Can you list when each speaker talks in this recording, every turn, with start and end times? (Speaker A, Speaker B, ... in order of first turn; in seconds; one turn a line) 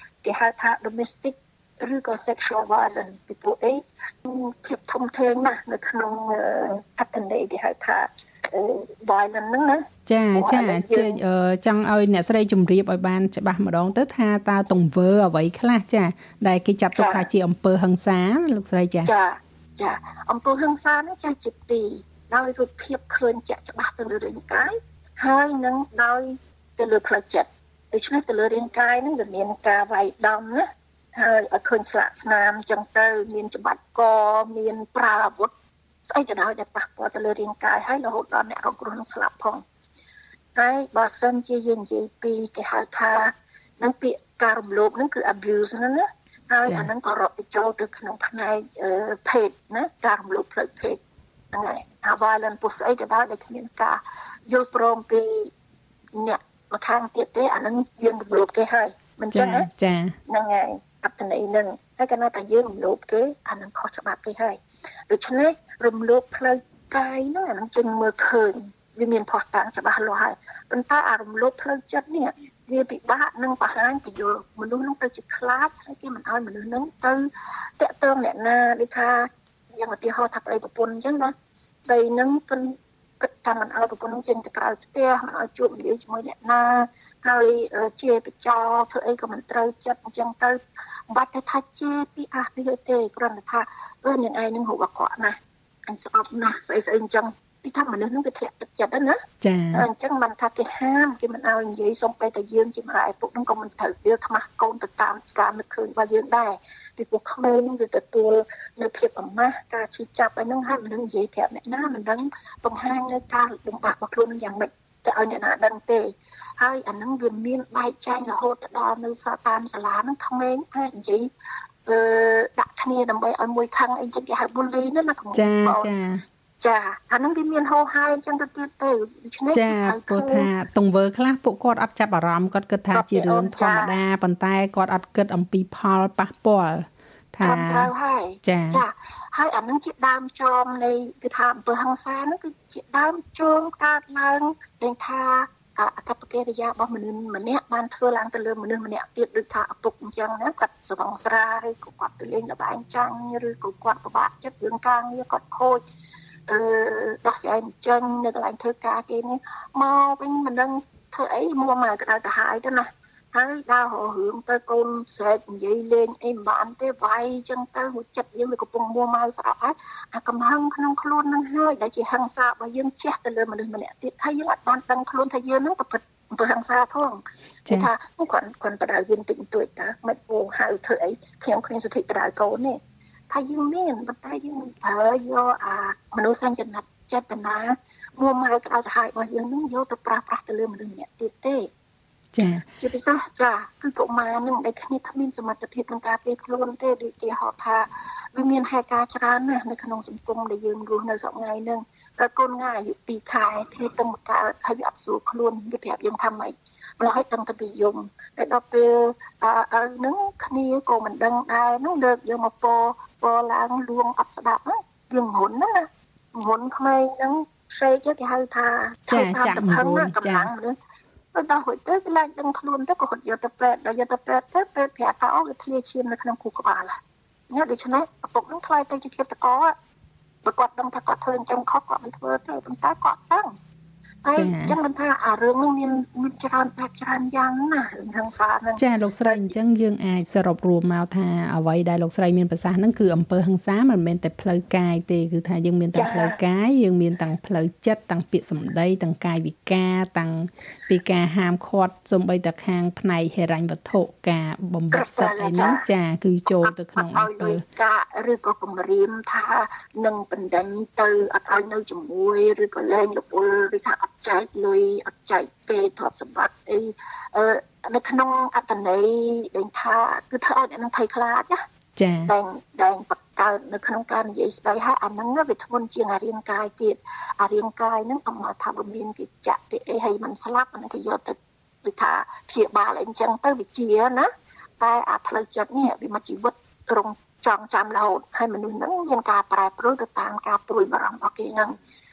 Speaker A: 0.2-11.2
Speaker B: 10.1-19.1
Speaker A: 16.9-17.3
Speaker A: 19.1-30.6
Speaker A: 31.1-35.5
Speaker A: 36.1-39.6
Speaker A: 40.6-51.0
Speaker A: 51.5-55.5
Speaker A: 56.2-59.7
Speaker B: 59.3-60.1
Speaker A: 60.3-64.6
Speaker A: 65.1-77.3
Speaker A: 77.8-81.3
Speaker A: 81.9-90.6
Speaker A: 91.1-95.4
Speaker A: 95.9-99.2
Speaker B: 99.4-99.9
Speaker A: 99.7-121.3
Speaker A: 121.9-125.9
Speaker B: 125.3-126.2
Speaker A: 126.6-130.5
Speaker B: 129.5-137.9
Speaker A: 132.9-134.0
Speaker A: 137.4-155.8
Speaker B: 138.4-138.8
Speaker A: 156.5-182.8
Speaker A: 183.3-191.7
Speaker B: 192.3-192.6
Speaker A: 192.8-220.8
Speaker B: 219.1-220.5
Speaker A: 221.3-226.9
Speaker A: 227.5-229.7
Speaker A: 230.4-233.5
Speaker A: 234.2-239.5
Speaker B: 234.3-234.8
Speaker B: 238.8-257.6
Speaker A: 245.9-246.4
Speaker A: 254.9-255.8
Speaker A: 256.5-271.6
Speaker B: 271.9-272.3
Speaker A: 272.3-284.3
Speaker A: 284.8-291.8